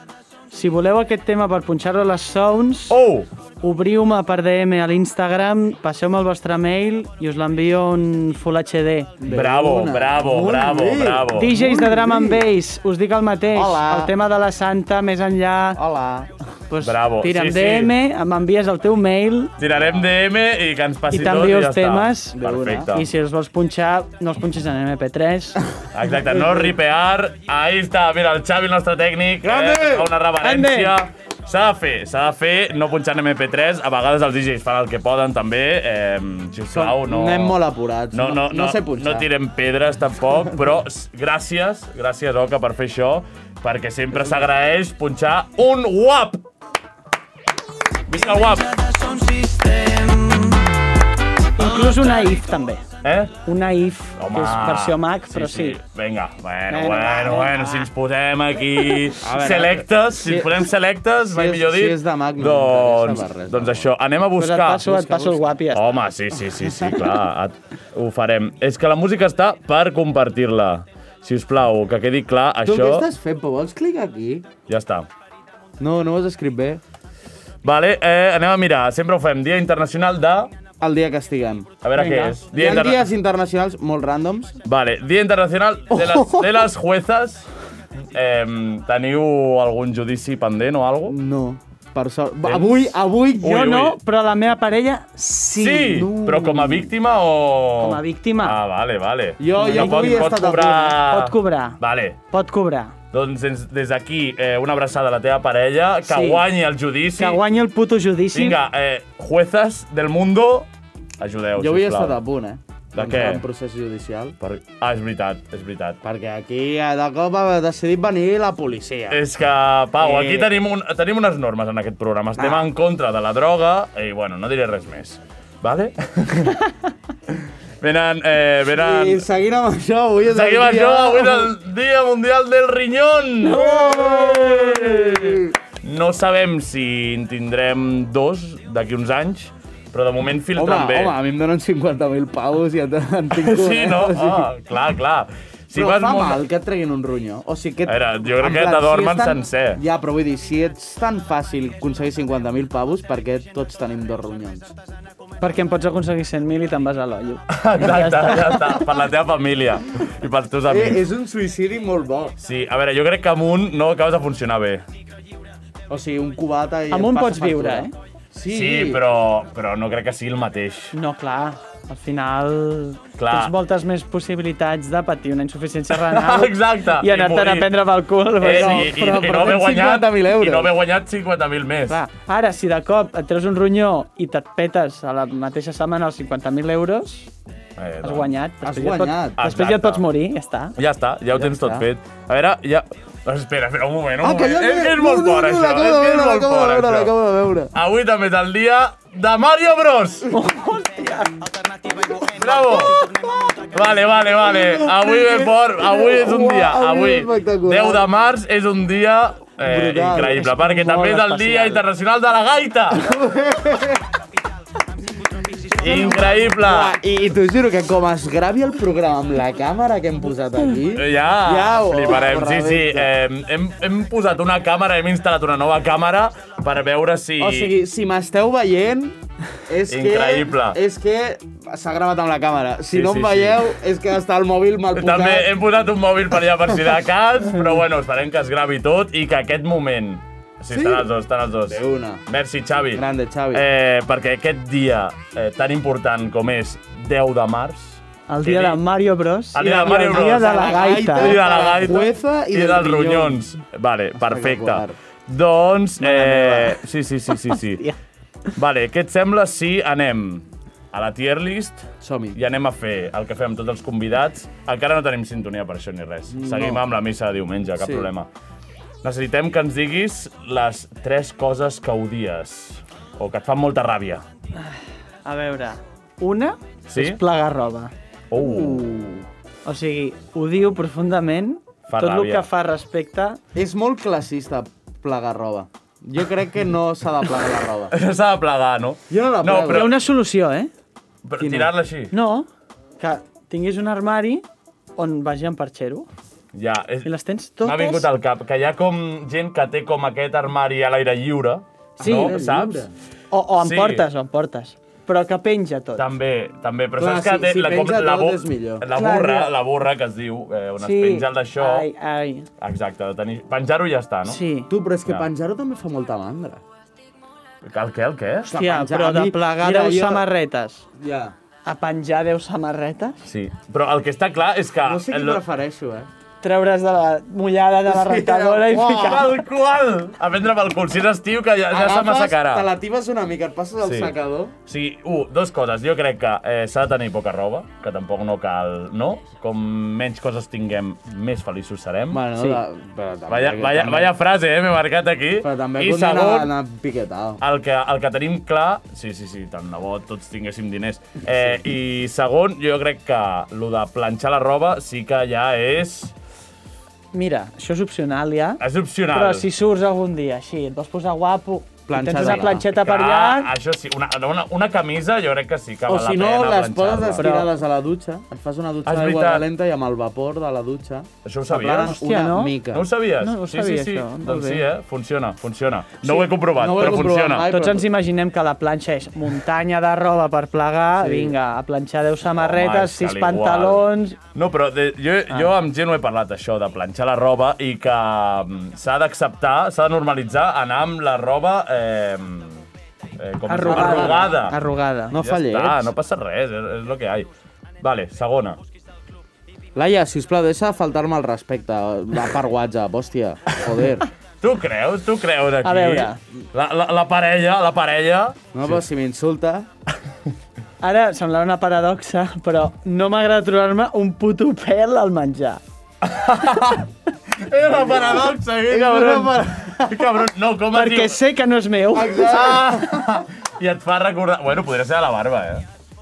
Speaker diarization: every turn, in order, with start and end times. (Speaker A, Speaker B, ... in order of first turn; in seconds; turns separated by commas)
Speaker A: 0.5-3.0, Speaker B: 2.9-3.3, Speaker A: 3.6-9.2, Speaker C: 9.2-12.4, Speaker B: 9.3-11.5, Speaker A: 11.3-15.8, Speaker C: 13.5-14.1, Speaker C: 15.7-16.3, Speaker A: 16.7-19.5, Speaker B: 16.8-17.9, Speaker B: 19.6-23.1, Speaker C: 19.7-20.1, Speaker A: 21.1-25.6, Speaker C: 22.3-22.9, Speaker B: 25.9-37.6, Speaker C: 26.1-26.8, Speaker C: 29.4-30.1, Speaker A: 30.4-31.0, Speaker C: 36.7-39.3, Speaker B: 38.1-46.4, Speaker C: 44.1-44.4, Speaker B: 48.1-48.7, Speaker A: 48.2-50.6, Speaker A: 51.5-52.9, Speaker B: 51.9-52.2, Speaker B: 53.0-53.4, Speaker A: 53.4-55.8, Speaker B: 54.2-64.9, Speaker A: 56.7-57.9, Speaker C: 59.2-60.7, Speaker C: 61.2-63.9, Speaker A: 64.4-65.9, Speaker C: 64.8-65.4, Speaker B: 65.7-73.1, Speaker C: 72.6-74.5, Speaker B: 74.7-75.1, Speaker C: 75.8-76.8, Speaker B: 77.6-80.5, Speaker C: 80.8-81.8, Speaker B: 81.8-83.0, Speaker A: 82.0-82.3, Speaker C: 82.4-84.6, Speaker B: 84.6-87.5, Speaker C: 85.9-86.6, Speaker B: 88.1-91.2, Speaker C: 91.0-93.5, Speaker B: 92.4-94.0, Speaker A: 93.4-96.1, Speaker B: 95.5-102.2, Speaker C: 95.7-96.9, Speaker A: 97.8-98.6, Speaker C: 99.4-101.0, Speaker A: 99.5-100.4, Speaker A: 101.0-101.8, Speaker A: 102.3-102.9, Speaker B: 103.1-107.4, Speaker A: 106.1-106.4, Speaker A: 107.2-108.6, Speaker B: 108.3-110.7, Speaker B: 111.2-112.2, Speaker C: 111.6-114.3, Speaker B: 112.9-113.4, Speaker B: 114.4-116.0, Speaker C: 116.0-119.2, Speaker B: 119.1-126.7, Speaker C: 120.0-120.5, Speaker C: 122.4-122.7, Speaker B: 127.8-129.2, Speaker C: 128.7-131.5, Speaker B: 130.3-141.1, Speaker C: 133.4-135.5, Speaker C: 140.5-144.5, Speaker B: 143.3-146.4, Speaker C: 145.7-154.7, Speaker B: 147.9-149.8, Speaker A: 155.4-158.8, Speaker B: 157.5-161.0, Speaker C: 160.7-162.3, Speaker B: 162.4-164.8, Speaker C: 165.9-169.0, Speaker A: 166.9-167.9, Speaker B: 168.5-170.9, Speaker A: 170.9-178.9, Speaker B: 173.2-173.5, Speaker B: 175.9-177.7, Speaker B: 178.4-182.0, Speaker C: 178.4-180.7, Speaker A: 181.9-187.3, Speaker B: 187.8-188.3, Speaker A: 188.0-190.7, Speaker C: 188.6-189.4, Speaker B: 189.4-190.0, Speaker B: 190.8-197.1, Speaker C: 191.3-191.8, Speaker C: 194.2-197.7, Speaker B: 197.7-200.3, Speaker A: 200.3-203.7, Speaker B: 202.3-203.0, Speaker B: 203.7-213.1, Speaker C: 204.4-208.1, Speaker C: 209.6-210.5, Speaker A: 210.4-211.8, Speaker C: 213.0-214.0, Speaker A: 215.8-216.3, Speaker B: 215.8-217.0, Speaker C: 215.8-223.1, Speaker B: 220.9-227.7, Speaker C: 227.4-235.5, Speaker B: 229.9-230.8, Speaker B: 232.9-233.6, Speaker B: 234.9-248.8, Speaker C: 240.7-241.1, Speaker C: 241.7-242.2, Speaker C: 242.9-243.6, Speaker A: 248.3-251.4, Speaker B: 249.5-257.8, Speaker C: 249.6-253.4, Speaker C: 254.2-254.9, Speaker A: 256.1-256.7, Speaker A: 257.5-257.9, Speaker B: 258.6-268.3, Speaker C: 262.0-262.4, Speaker C: 266.3-266.8, Speaker C: 267.8-268.1, Speaker B: 269.0-274.2, Speaker A: 274.6-277.9, Speaker B: 276.9-277.2, Speaker B: 278.3-278.9, Speaker C: 278.4-279.3, Speaker A: 279.6-283.4, Speaker B: 281.9-282.5, Speaker C: 283.5-287.9, Speaker B: 287.9-290.0, Speaker C: 289.1-289.9, Speaker A: 289.6-290.7, Speaker B: 291.2-292.1, Speaker C: 291.4-291.7, Speaker A: 292.1-292.5, Speaker A: 293.0-294.4, Speaker A: 294.9-296.1, Speaker B: 296.5-297.1, Speaker A: 297.0-298.1, Speaker B: 297.6-302.9, Speaker C: 302.0-302.9, Speaker A: 302.0-302.4, Speaker A: 303.3-306.1, Speaker B: 303.6-304.0, Speaker B: 305.9-311.9, Speaker C: 307.0-308.9, Speaker A: 308.9-309.5, Speaker A: 310.8-312.5, Speaker B: 312.6-314.4, Speaker A: 314.2-314.7, Speaker C: 314.7-316.6, Speaker B: 317.6-318.5, Speaker A: 318.4-320.8, Speaker C: 318.4-320.2, Speaker C: 321.0-321.3, Speaker A: 321.6-323.2, Speaker B: 323.2-325.4, Speaker C: 324.8-326.1, Speaker A: 326.4-329.3, Speaker C: 327.9-329.2, Speaker B: 328.7-332.7, Speaker C: 331.7-334.5, Speaker B: 333.8-334.1, Speaker B: 334.6-342.2, Speaker C: 342.1-344.1, Speaker B: 343.3-346.5, Speaker C: 345.4-347.4, Speaker B: 347.4-356.1, Speaker C: 351.3-351.6, Speaker A: 357.1-363.5, Speaker B: 358.6-359.5, Speaker C: 361.9-362.6, Speaker B: 362.2-367.3, Speaker C: 365.9-372.9, Speaker A: 367.2-367.5, Speaker B: 368.8-369.4, Speaker B: 371.2-372.0, Speaker A: 371.8-372.6, Speaker B: 372.7-377.5, Speaker A: 373.2-374.6, Speaker C: 376.1-377.9, Speaker A: 377.5-384.2, Speaker C: 381.0-381.3, Speaker B: 382.2-392.6, Speaker B: 393.2-394.6, Speaker A: 393.5-395.1, Speaker C: 393.6-394.4, Speaker C: 395.1-395.9, Speaker B: 395.1-397.3, Speaker B: 397.8-398.6, Speaker C: 399.7-404.1, Speaker B: 404.4-408.7, Speaker A: 405.6-406.2, Speaker C: 408.5-409.7, Speaker A: 410.8-415.6, Speaker B: 416.0-421.2, Speaker C: 417.6-420.2, Speaker A: 420.7-422.6, Speaker C: 421.9-423.1, Speaker B: 422.2-425.6